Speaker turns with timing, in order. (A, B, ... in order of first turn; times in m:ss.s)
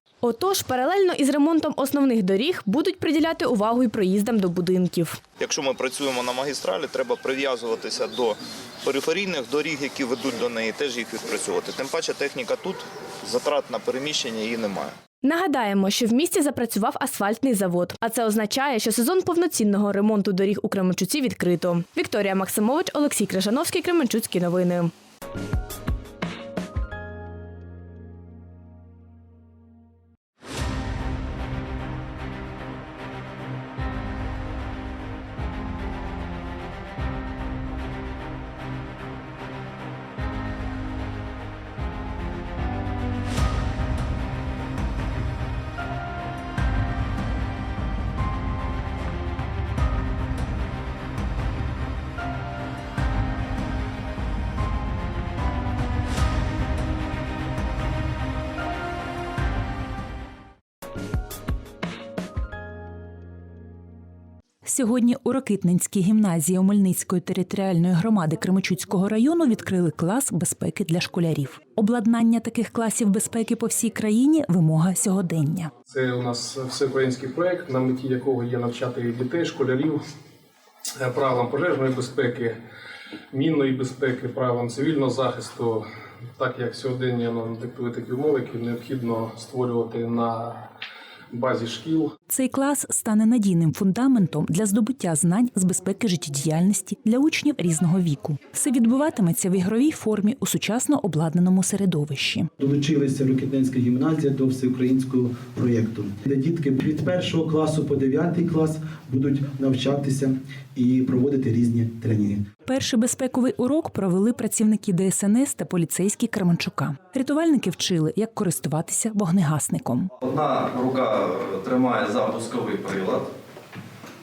0:00.2-0:05.2 A
0:05.4-0:15.0 B
0:15.2-0:24.9 A
1:04.6-1:15.7 C
1:15.9-1:20.0 D
1:21.0-1:22.6 D
1:23.3-1:25.8 D
1:26.4-1:30.6 D
1:31.3-1:32.1 D
1:32.3-1:42.5 C
1:42.6-1:52.4 E
1:52.7-2:00.1 C
2:00.2-2:03.3 F